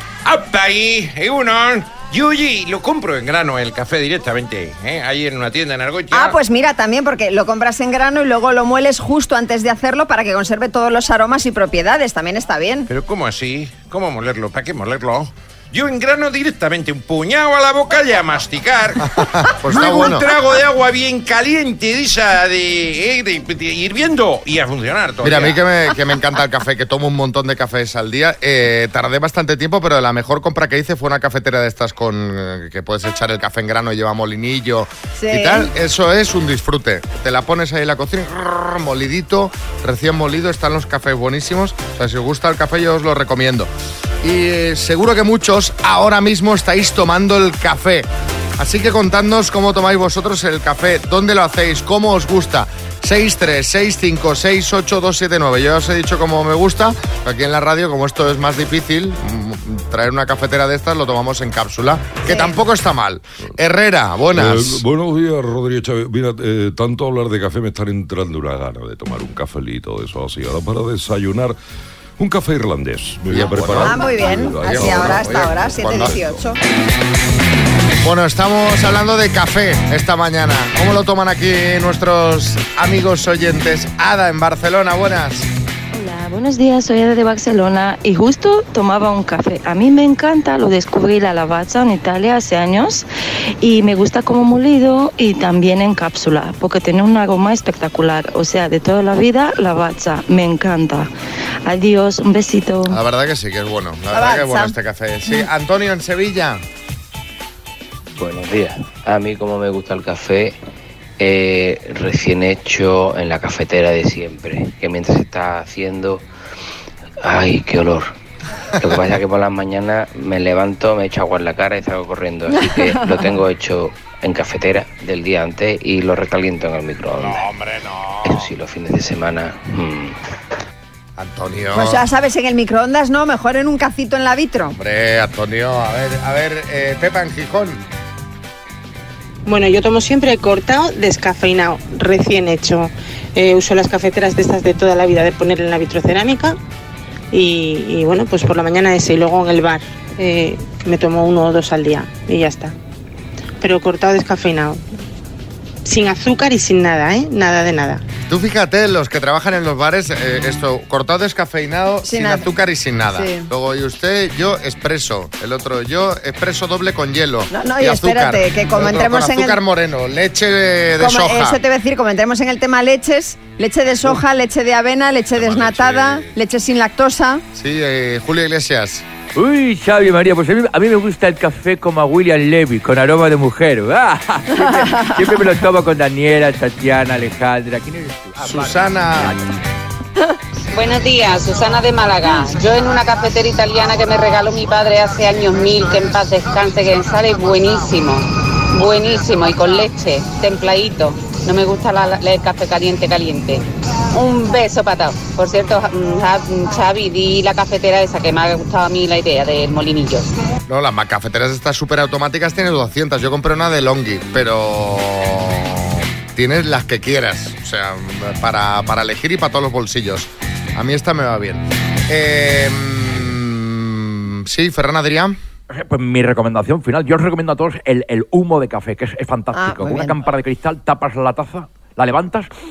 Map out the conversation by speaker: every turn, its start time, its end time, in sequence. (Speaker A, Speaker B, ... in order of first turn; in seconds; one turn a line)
Speaker A: 0.2-6.4
Speaker B: 6.1-12.9
Speaker A: 12.9-19.1
Speaker C: 19.2-20.2
Speaker A: 19.6-25.6
Speaker C: 25.2-43.7
Speaker B: 35.1-35.7
Speaker C: 44.2-64.8
Speaker B: 62.2-62.5
Speaker D: 64.3-71.5
Speaker D: 72.2-75.3
Speaker C: 73.3-76.4
Speaker B: 73.8-76.6
Speaker C: 78.0-85.5
Speaker E: 85.9-93.0
Speaker E: 93.6-101.1
Speaker E: 101.6-103.0
Speaker C: 102.9-106.6
Speaker B: 104.1-104.7
Speaker F: 108.2-110.6
Speaker F: 111.2-116.3
Speaker F: 117.2-118.1
Speaker F: 118.8-127.5
Speaker C: 127.2-128.3
Speaker F: 128.2-130.2
Speaker C: 131.2-132.0
Speaker B: 131.7-134.8
Speaker C: 134.8-137.8
Speaker G: 139.4-146.6
Speaker G: 147.3-152.7
Speaker G: 153.6-154.9
Speaker G: 155.8-158.0
Speaker C: 158.3-171.6
Speaker B: 162.1-162.4
Speaker B: 163.1-163.5
Speaker B: 167.5-169.6
Speaker B: 171.0-177.4
Speaker A: 175.4-176.3
Speaker C: 177.5-179.0
Speaker H: 179.3-189.4
Speaker C: 188.4-189.3
Speaker I: 190.7-210.3
Speaker C: 210.7-225.4
Speaker H: 225.7-232.5
Speaker B: 229.5-230.2